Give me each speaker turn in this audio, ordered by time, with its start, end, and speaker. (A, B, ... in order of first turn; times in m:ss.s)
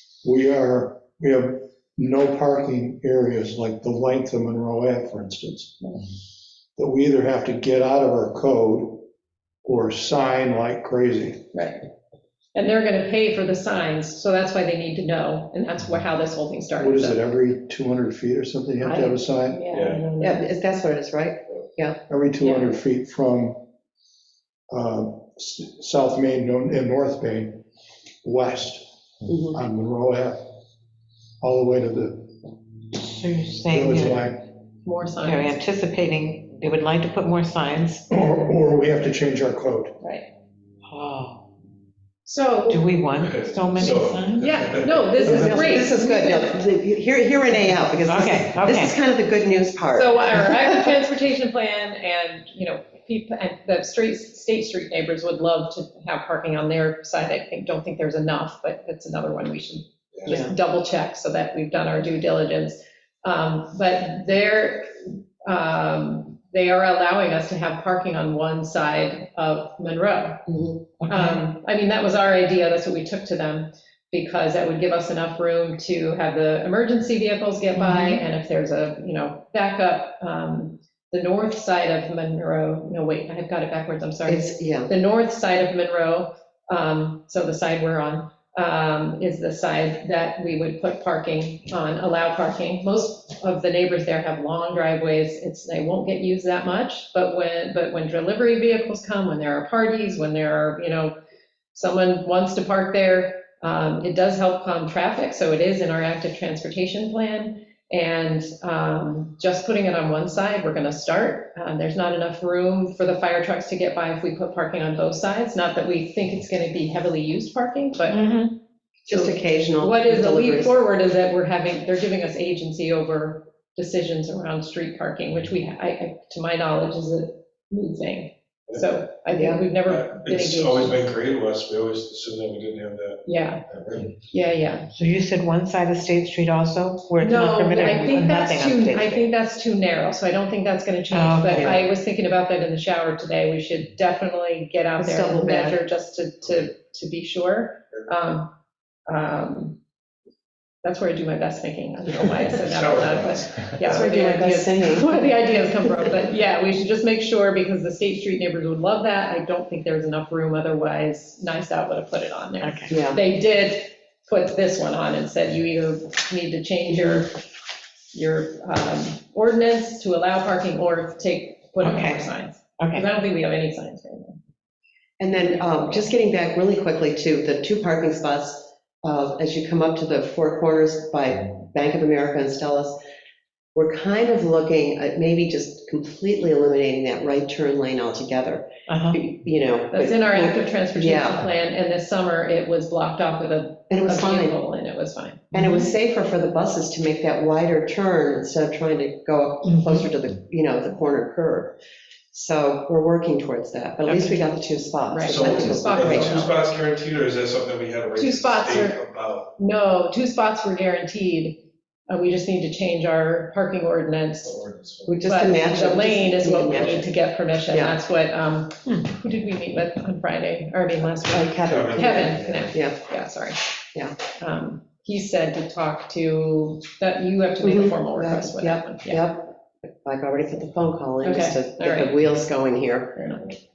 0:00.2-0:06.0 A
0:06.8-0:09.1 A
0:09.6-0:11.4 A
0:11.5-0:11.8 B
0:12.6-0:17.2 B
0:16.8-0:19.6 A
0:18.8-0:20.5 B
0:19.7-0:20.1 C
0:20.2-0:22.0 D
0:22.1-0:23.6 A
0:22.4-0:22.7 B
0:24.7-0:27.6 A
0:28.2-0:28.8 A
0:29.3-0:29.6 D
0:29.5-0:30.5 A
0:31.4-0:32.3 A
0:33.0-0:34.2 E
0:33.7-0:34.5 A
0:34.8-0:35.6 B
0:35.2-0:38.0 E
0:38.1-0:39.9 A
0:40.0-0:40.3 B
0:40.9-0:41.4 E
0:42.2-0:42.8 B
0:42.7-0:44.5 E
0:43.1-0:45.1 C
0:43.8-0:46.6 B
0:45.2-0:50.8 D
0:45.2-0:45.6 A
0:48.0-0:49.0 E
0:49.9-1:10.4 B
1:00.3-1:00.5 D
1:10.5-1:10.8 D
1:11.1-1:41.1 B
1:24.3-1:24.9 D
1:41.7-1:58.2 B
1:58.1-1:58.5 E
1:59.1-2:00.7 D
1:59.1-2:11.0 B
2:09.3-2:09.7 D
2:09.8-2:14.2 C
2:13.3-2:13.6 B
2:14.3-2:14.9 B
2:14.9-2:19.2 E
2:17.2-2:28.5 B
2:21.1-2:21.6 E
2:21.5-2:21.8 D
2:25.0-2:25.8 D
2:29.1-2:29.8 B
2:30.8-2:47.4 B
2:32.4-2:34.1 C
2:33.8-2:35.3 D
2:42.6-2:42.9 E
2:42.9-2:43.2 D
2:48.1-2:54.4 B
2:51.8-2:52.3 E
2:52.8-2:53.0 E
2:55.2-3:03.0 D
3:03.8-3:11.4 D
3:08.9-3:09.2 E
3:09.9-3:15.4 B
3:13.9-3:14.6 D
3:15.5-3:21.8 D
3:22.3-3:26.4 D
3:24.1-3:24.4 B
3:25.1-3:26.6 B
3:25.3-3:29.5 C
3:28.2-3:29.0 B
3:29.6-3:34.6 B
3:34.4-3:35.3 C
3:35.1-3:37.1 D
3:35.2-3:43.6 B
3:37.7-3:38.0 D
3:41.3-3:43.0 D
3:41.6-3:42.7 C
3:44.4-3:49.3 B
3:47.6-3:53.4 D
3:51.2-3:52.2 B
3:53.2-3:53.6 B